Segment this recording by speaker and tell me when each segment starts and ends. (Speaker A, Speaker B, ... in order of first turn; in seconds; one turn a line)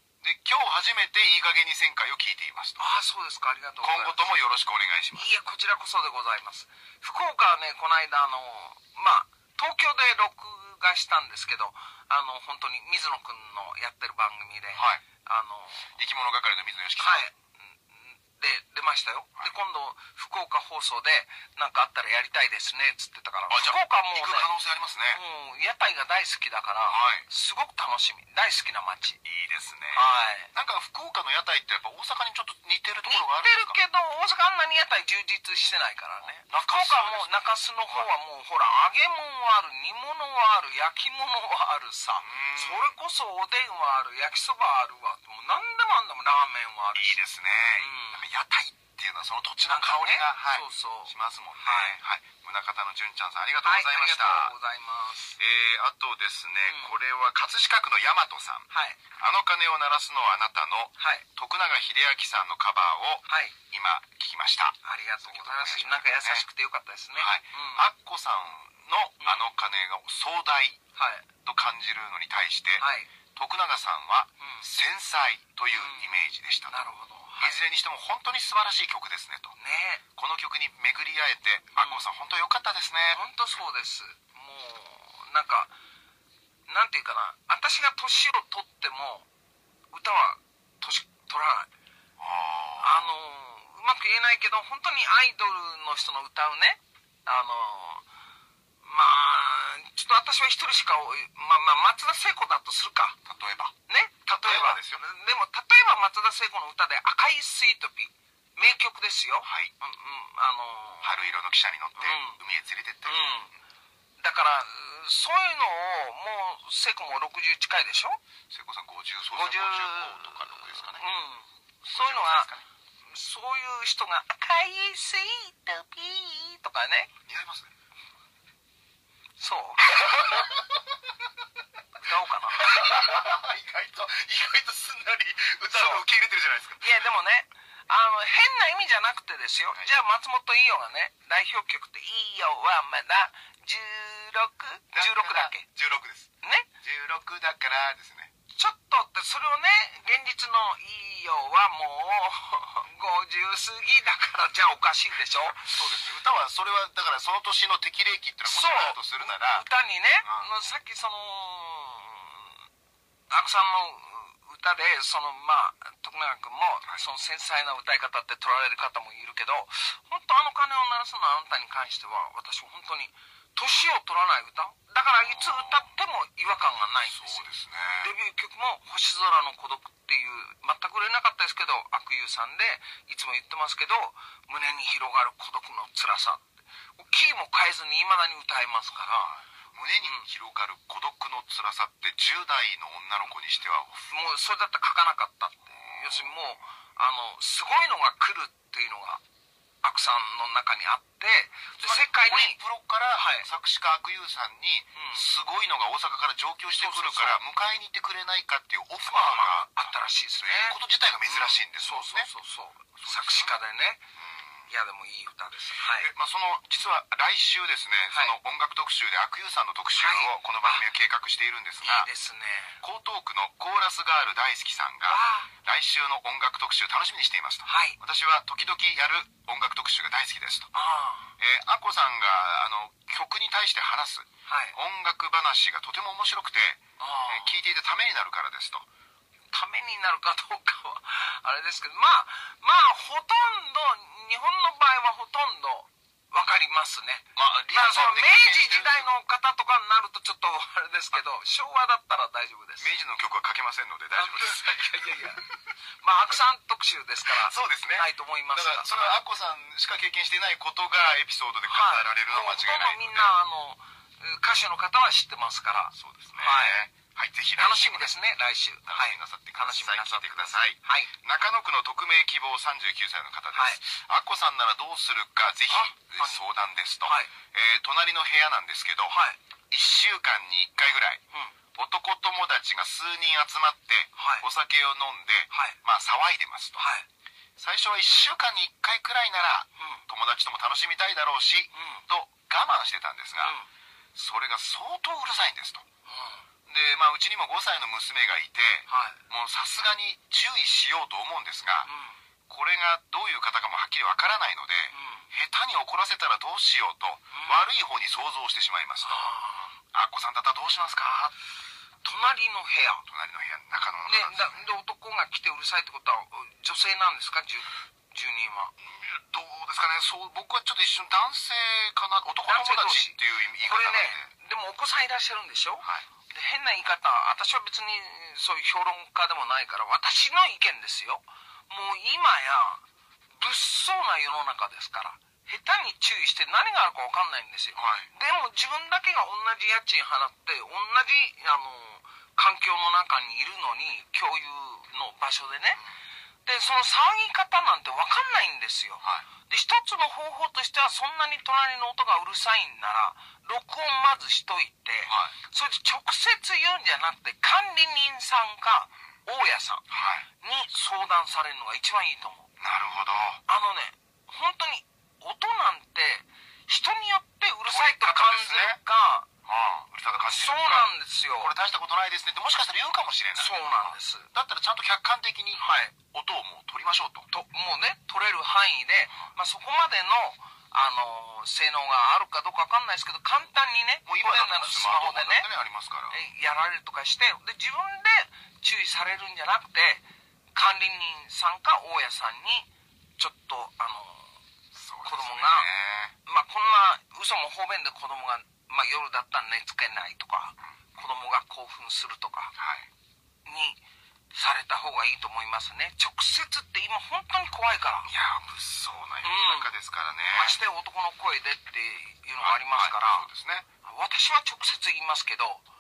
Speaker A: 0.2-2.8
Speaker B: 2.8-4.3
Speaker A: 3.8-5.3
Speaker B: 5.1-15.9
Speaker A: 14.8-15.0
Speaker A: 15.9-17.3
Speaker B: 17.0-17.4
Speaker B: 17.9-24.5
Speaker A: 23.5-25.2
Speaker B: 25.1-29.2
Speaker A: 26.9-27.3
Speaker A: 29.2-30.0
Speaker B: 29.9-30.5
Speaker A: 30.5-33.8
Speaker B: 33.1-47.2
Speaker A: 36.4-37.3
Speaker A: 42.2-43.0
Speaker A: 47.0-54.5
Speaker B: 47.8-48.2
Speaker B: 49.7-52.0
Speaker B: 53.6-55.4
Speaker A: 55.4-58.7
Speaker B: 56.7-56.9
Speaker B: 58.7-59.0
Speaker A: 59.2-66.4
Speaker B: 61.0-61.2
Speaker B: 63.3-63.5
Speaker B: 64.8-67.8
Speaker A: 67.2-70.8
Speaker B: 69.2-69.5
Speaker B: 71.0-71.3
Speaker A: 71.5-72.8
Speaker B: 72.8-73.1
Speaker A: 73.4-76.8
Speaker B: 74.4-74.7
Speaker B: 75.7-76.2
Speaker B: 76.7-77.6
Speaker A: 77.4-79.5
Speaker B: 79.6-80.0
Speaker A: 80.2-83.2
Speaker B: 81.8-82.0
Speaker B: 83.1-85.7
Speaker B: 86.7-89.3
Speaker B: 89.9-91.7
Speaker A: 92.2-93.1
Speaker B: 92.8-98.0
Speaker B: 98.8-103.2
Speaker A: 103.2-103.7
Speaker B: 103.9-111.2
Speaker A: 104.3-105.0
Speaker A: 109.4-109.7
Speaker A: 111.0-113.4
Speaker B: 112.0-112.4
Speaker B: 113.0-113.5
Speaker B: 114.2-118.2
Speaker A: 118.5-121.1
Speaker B: 119.3-122.5
Speaker A: 121.9-122.7
Speaker B: 123.1-127.1
Speaker A: 127.3-127.7
Speaker B: 129.4-130.3
Speaker A: 129.9-130.8
Speaker B: 132.0-132.7
Speaker A: 132.5-136.9
Speaker B: 135.7-136.1
Speaker B: 136.8-145.7
Speaker A: 144.9-148.3
Speaker B: 146.4-146.7
Speaker B: 148.6-156.0
Speaker A: 155.7-159.7
Speaker B: 158.5-162.6
Speaker B: 163.3-177.5
Speaker A: 175.2-175.9
Speaker A: 177.0-178.1
Speaker B: 178.0-189.2
Speaker A: 188.9-194.1
Speaker B: 190.0-190.3
Speaker B: 194.1-199.2
Speaker A: 195.7-196.4
Speaker B: 199.8-202.6
Speaker A: 201.8-212.3
Speaker B: 203.2-203.5
Speaker B: 204.9-205.3
Speaker B: 206.8-207.4
Speaker B: 209.0-214.0
Speaker A: 213.0-213.6
Speaker A: 214.2-214.7
Speaker B: 214.7-216.1
Speaker A: 215.8-222.1
Speaker B: 220.0-220.8
Speaker B: 221.8-222.8
Speaker A: 222.8-230.7
Speaker B: 225.1-225.5
Speaker B: 227.7-228.0
Speaker B: 230.7-231.3
Speaker A: 231.4-238.9
Speaker B: 234.5-234.8
Speaker B: 237.0-237.6
Speaker B: 239.5-252.9
Speaker A: 247.3-249.2
Speaker A: 252.8-255.7
Speaker B: 254.1-255.4
Speaker B: 256.0-259.1
Speaker A: 257.3-263.3
Speaker B: 261.6-266.8
Speaker A: 265.9-268.1
Speaker B: 267.6-271.1
Speaker A: 268.9-279.2
Speaker B: 273.5-273.8
Speaker B: 275.7-276.5
Speaker B: 277.1-277.3
Speaker B: 279.1-279.4
Speaker A: 279.7-281.2
Speaker B: 280.9-281.5
Speaker A: 281.8-286.8
Speaker B: 284.2-284.5
Speaker B: 285.5-285.8
Speaker B: 286.8-287.1
Speaker A: 287.6-293.6
Speaker B: 289.8-290.0
Speaker B: 291.7-292.1
Speaker B: 293.4-293.7
Speaker A: 294.1-295.9
Speaker B: 296.1-296.4
Speaker A: 296.7-301.9
Speaker B: 298.9-299.2
Speaker B: 301.9-302.2
Speaker A: 302.5-309.3
Speaker B: 304.9-305.3
Speaker B: 307.3-307.6
Speaker B: 309.0-309.7
Speaker A: 309.9-311.3
Speaker B: 312.0-313.0
Speaker A: 313.1-314.6
Speaker B: 314.1-318.7
Speaker A: 318.8-324.3
Speaker B: 322.4-332.8
Speaker B: 333.3-345.8
Speaker A: 337.8-338.1
Speaker B: 346.5-359.8
Speaker A: 355.1-355.4
Speaker A: 359.9-360.3
Speaker B: 360.4-362.5
Speaker A: 362.6-363.4
Speaker B: 363.5-369.3
Speaker A: 367.7-368.8
Speaker A: 369.4-377.3
Speaker B: 370.1-371.5
Speaker B: 373.4-374.3
Speaker B: 375.6-375.9
Speaker B: 377.3-385.5
Speaker A: 384.1-386.2
Speaker B: 386.1-390.0
Speaker B: 390.5-394.3
Speaker A: 394.7-396.1
Speaker B: 395.0-395.7
Speaker B: 396.3-402.5
Speaker A: 402.6-402.9
Speaker B: 403.5-403.8
Speaker B: 404.3-408.1
Speaker A: 408.1-410.6
Speaker B: 409.2-409.7
Speaker B: 410.3-413.3
Speaker A: 412.4-413.6
Speaker B: 413.9-415.6